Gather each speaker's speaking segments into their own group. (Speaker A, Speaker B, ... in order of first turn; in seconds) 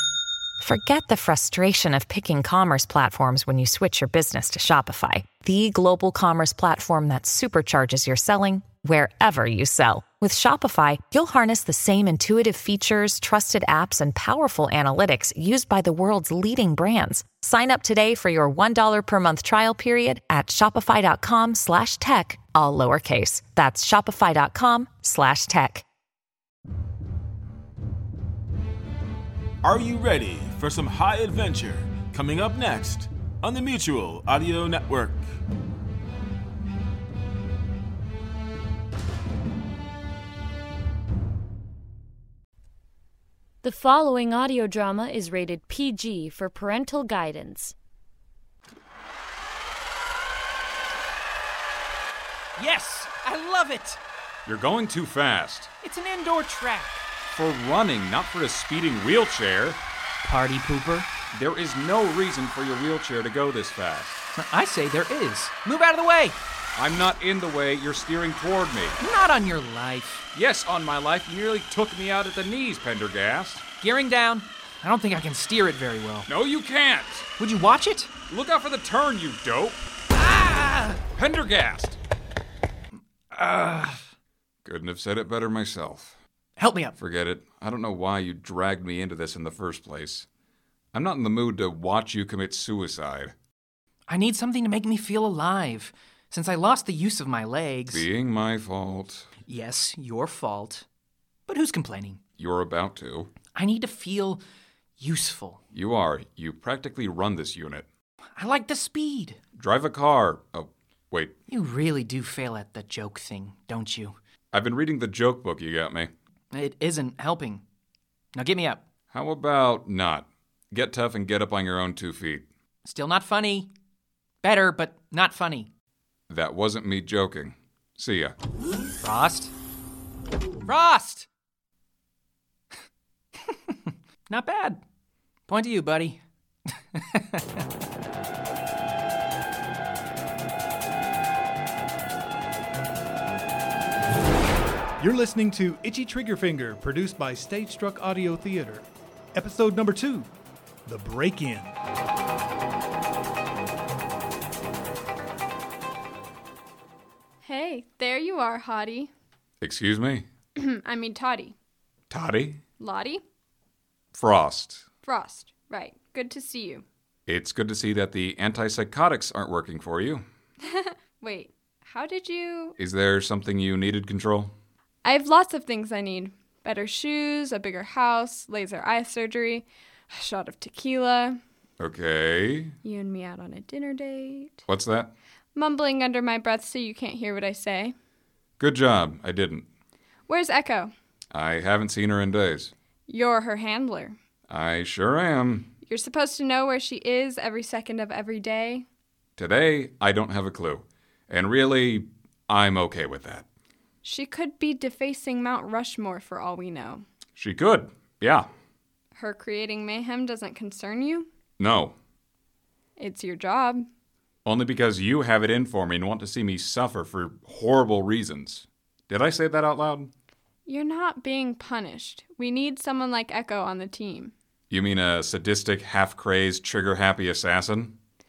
Speaker A: 0.6-25.9
Speaker B: 29.6-35.3
Speaker C: 43.6-47.7
Speaker D: 52.6-54.0, 55.8-57.1, 60.2-61.1, 64.4-66.4, 69.0-70.3, 73.8-76.3, 77.4-78.1, 80.1-81.0, 83.3-84.0, 86.6-87.0, 94.1-98.1, 99.5-100.9, 101.5-102.2, 103.5-104.4, 105.0-105.6, 108.4-109.4, 111.5-114.2, 116.5-117.6, 118.3-118.8, 122.8-123.7, 124.4-125.7, 129.0-129.5, 130.7-131.3, 133.5-134.8, 135.5-136.2, 136.9-137.6
Speaker E: 54.5-55.7, 57.3-59.8, 61.3-64.2, 66.8-69.0, 70.3-73.7, 76.3-77.3, 78.3-79.8, 81.1-82.0, 84.7-86.2, 87.0-90.3, 90.9-93.3, 97.9-99.3, 102.4-103.3, 105.7-107.9, 109.6-111.4, 114.5-116.1, 119.1-122.5, 126.3-128.4, 159.6-160.3, 162.1-162.6, 164.1-164.9, 167.3-170.2, 172.8-174.5, 181.8-182.8, 184.7-185.1, 188.6-189.7, 191.3-192.7, 194.5-195.7, 199.4-203.5, 207.4-208.5, 211.6-212.0, 214.4-220.1, 224.7-228.0
Speaker F: 145.0-150.3, 150.9-151.8
Speaker G: 157.4-159.1, 160.6-161.6, 162.8-163.2, 165.1-166.8, 170.6-172.8, 175.1-181.4, 182.8-184.7, 185.6-187.9, 190.3-190.9, 193.1-194.2, 195.9-198.8, 204.0-207.1, 209.2-211.3, 213.0-213.9, 220.7-224.3